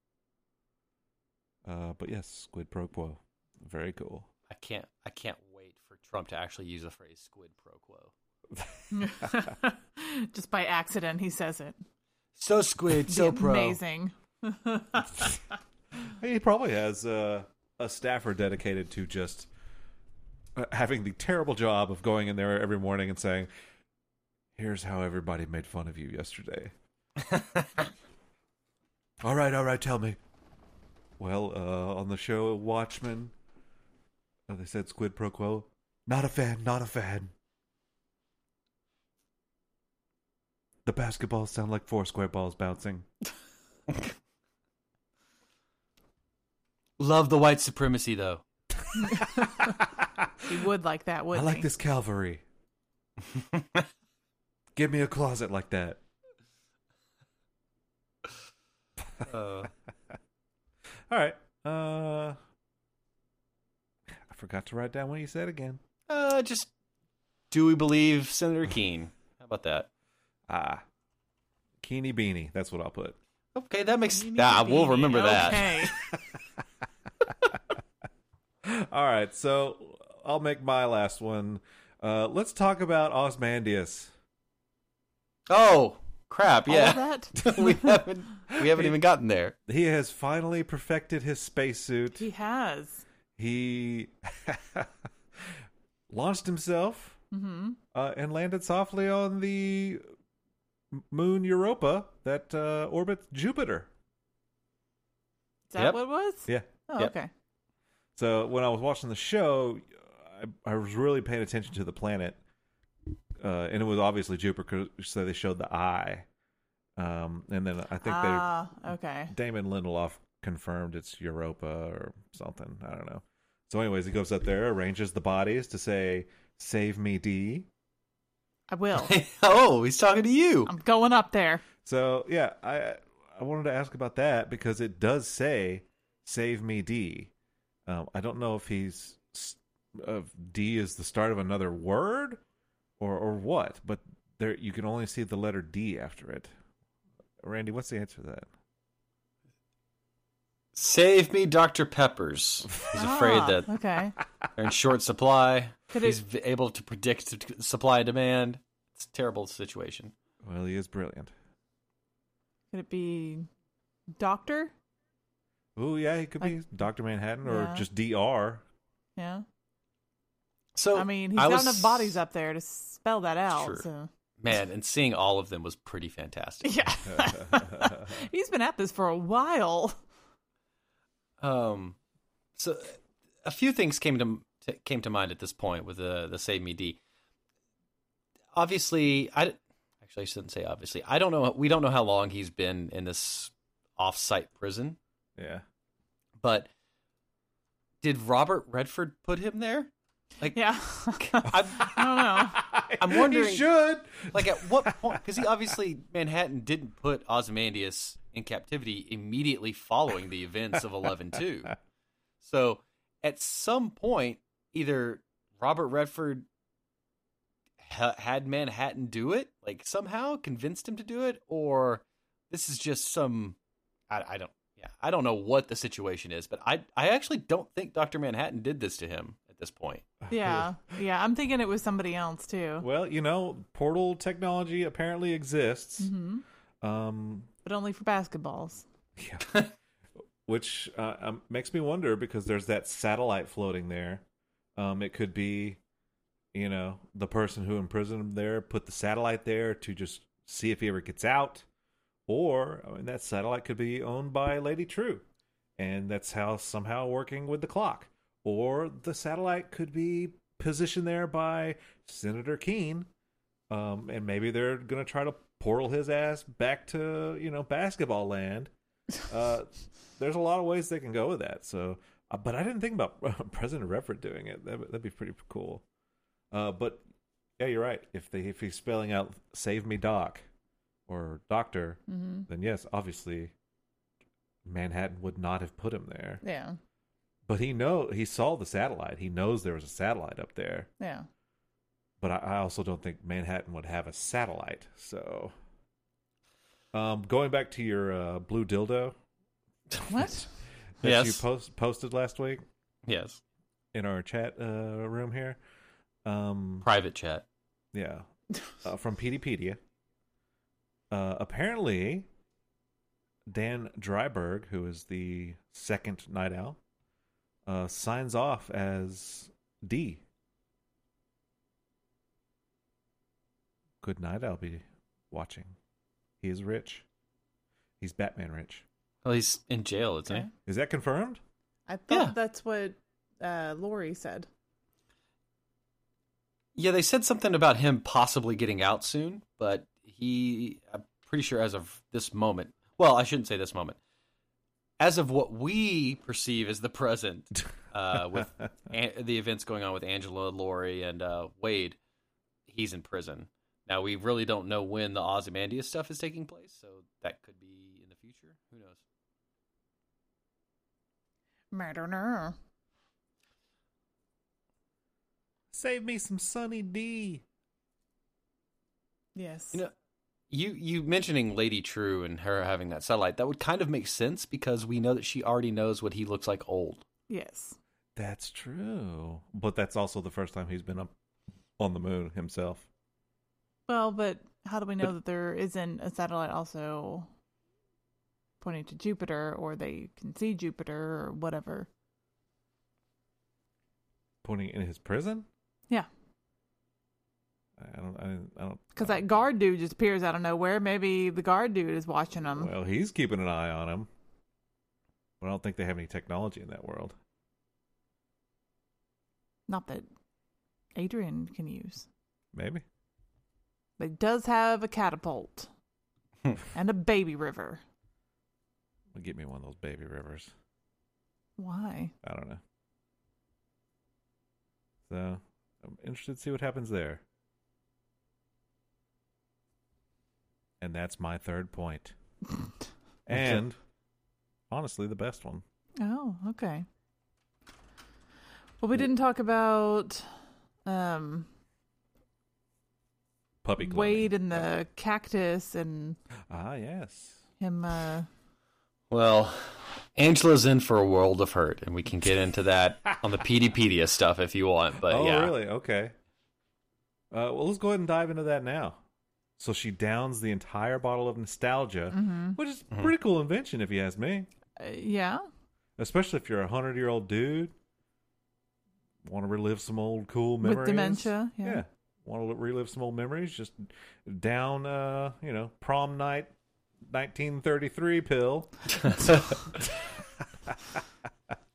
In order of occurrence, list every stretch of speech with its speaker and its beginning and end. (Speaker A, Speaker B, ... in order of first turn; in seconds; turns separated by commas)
Speaker A: 1.6-4.3, Speaker B: 4.5-8.1, Speaker A: 8.6-9.4, Speaker C: 8.9-11.8, Speaker B: 12.4-13.8, Speaker C: 13.1-15.4, Speaker A: 16.0-19.5, Speaker A: 20.6-23.5, Speaker A: 24.6-26.7, Speaker B: 27.3-27.7, Speaker A: 29.2-30.2, Speaker A: 31.2-33.3, Speaker A: 34.5-37.3, Speaker A: 40.9-43.1, Speaker B: 47.0-48.4, Speaker A: 48.9-50.5, Speaker C: 49.0-49.8, Speaker C: 50.5-51.7, Speaker A: 51.3-52.4, Speaker A: 54.8-56.0, Speaker B: 59.2-59.7, Speaker A: 61.1-62.4, Speaker A: 64.1-65.8, Speaker B: 66.1-66.7, Speaker B: 67.5-69.9, Speaker A: 70.5-70.8, Speaker A: 71.8-73.2, Speaker B: 73.5-75.9, Speaker C: 74.2-76.0, Speaker A: 75.9-76.4, Speaker A: 78.6-84.1, Speaker B: 85.5-89.5, Speaker C: 86.7-88.0, Speaker A: 88.6-89.0, Speaker A: 89.7-92.2, Speaker C: 92.2-93.0, Speaker A: 93.4-97.2, Speaker C: 97.3-97.8, Speaker A: 97.9-100.1, Speaker A: 100.9-103.9, Speaker C: 105.7-107.3, Speaker A: 108.2-112.4, Speaker A: 113.4-116.3, Speaker A: 117.0-118.5, Speaker C: 118.0-119.3, Speaker A: 119.3-127.7, Speaker C: 128.7-129.2, Speaker B: 128.9-130.7, Speaker C: 130.7-131.6, Speaker A: 131.8-137.3, Speaker A: 137.9-142.4, Speaker A: 143.0-146.5, Speaker A: 147.4-148.5, Speaker B: 150.7-153.7, Speaker C: 152.9-154.2, Speaker B: 154.6-160.1, Speaker C: 155.9-156.2, Speaker A: 160.4-161.3, Speaker C: 162.7-163.5, Speaker C: 164.2-164.7, Speaker A: 165.8-168.6, Speaker C: 167.4-167.9, Speaker C: 169.2-169.4, Speaker B: 170.8-172.2, Speaker C: 170.9-174.1, Speaker B: 173.5-173.9, Speaker B: 174.4-176.8, Speaker C: 176.6-180.0, Speaker A: 177.1-178.2, Speaker B: 181.4-182.0, Speaker B: 182.6-187.0, Speaker B: 188.5-195.0, Speaker A: 195.4-195.6, Speaker B: 196.4-196.7, Speaker B: 198.0-202.3, Speaker C: 200.5-202.6, Speaker A: 202.4-205.2, Speaker B: 203.0-211.8, Speaker B: 212.4-216.5, Speaker B: 217.8-223.6, Speaker B: 224.1-230.1, Speaker A: 230.2-230.7, Speaker C: 230.3-232.9, Speaker A: 232.8-236.1, Speaker C: 236.0-236.4, Speaker A: 236.8-237.5, Speaker C: 237.7-238.8, Speaker A: 239.2-239.5, Speaker A: 240.4-244.2, Speaker A: 244.8-245.8, Speaker A: 246.5-251.7, Speaker A: 252.3-255.2, Speaker A: 255.8-263.1, Speaker A: 263.7-268.7, Speaker A: 269.3-275.8, Speaker A: 276.5-277.0, Speaker A: 277.6-280.4, Speaker A: 281.1-283.5, Speaker C: 282.1-282.5, Speaker A: 284.6-286.4, Speaker C: 286.4-286.8, Speaker A: 287.5-290.9, Speaker C: 291.0-291.3, Speaker A: 292.2-295.6, Speaker A: 296.9-299.2, Speaker C: 300.1-300.5, Speaker A: 301.0-302.6, Speaker B: 301.0-301.4, Speaker B: 303.1-303.4, Speaker A: 303.9-305.6, Speaker A: 306.2-306.9, Speaker B: 306.8-307.4, Speaker A: 307.9-308.3, Speaker A: 308.8-309.8, Speaker A: 311.1-312.3, Speaker A: 313.5-316.8, Speaker A: 317.7-320.2, Speaker A: 324.0-325.8, Speaker A: 326.4-327.1, Speaker A: 328.0-328.9, Speaker B: 329.2-330.5, Speaker A: 330.7-331.4, Speaker C: 331.9-334.5, Speaker B: 332.1-332.4, Speaker B: 336.8-344.0, Speaker B: 345.0-352.0, Speaker B: 352.7-359.0, Speaker C: 361.7-362.6, Speaker A: 365.7-367.4, Speaker C: 369.4-369.8, Speaker B: 370.5-377.0, Speaker C: 377.3-377.8, Speaker A: 378.2-381.1, Speaker A: 381.8-382.9, Speaker C: 383.9-387.3, Speaker C: 388.6-391.9, Speaker A: 394.4-395.5, Speaker A: 397.8-399.2, Speaker C: 398.9-402.7, Speaker A: 402.5-404.1, Speaker A: 405.4-407.2, Speaker C: 409.7-410.1, Speaker C: 411.0-412.1, Speaker A: 412.5-412.8, Speaker C: 414.0-415.7, Speaker C: 416.7-417.8, Speaker A: 419.1-420.5, Speaker C: 421.6-422.1, Speaker A: 422.2-422.6, Speaker A: 425.1-427.2, Speaker A: 430.8-432.1, Speaker A: 433.3-433.8, Speaker A: 434.7-435.6, Speaker C: 436.0-436.9, Speaker C: 438.8-440.3, Speaker C: 440.9-441.5, Speaker A: 443.6-444.7, Speaker C: 443.8-446.2, Speaker A: 446.5-447.4, Speaker C: 447.6-448.3, Speaker B: 449.1-455.5, Speaker A: 455.0-456.1, Speaker A: 457.3-459.0, Speaker A: 459.6-464.5, Speaker C: 462.1-462.6, Speaker C: 464.8-465.4, Speaker A: 466.0-467.7, Speaker A: 469.2-476.5, Speaker C: 470.6-471.8, Speaker A: 477.0-479.5, Speaker B: 479.0-479.5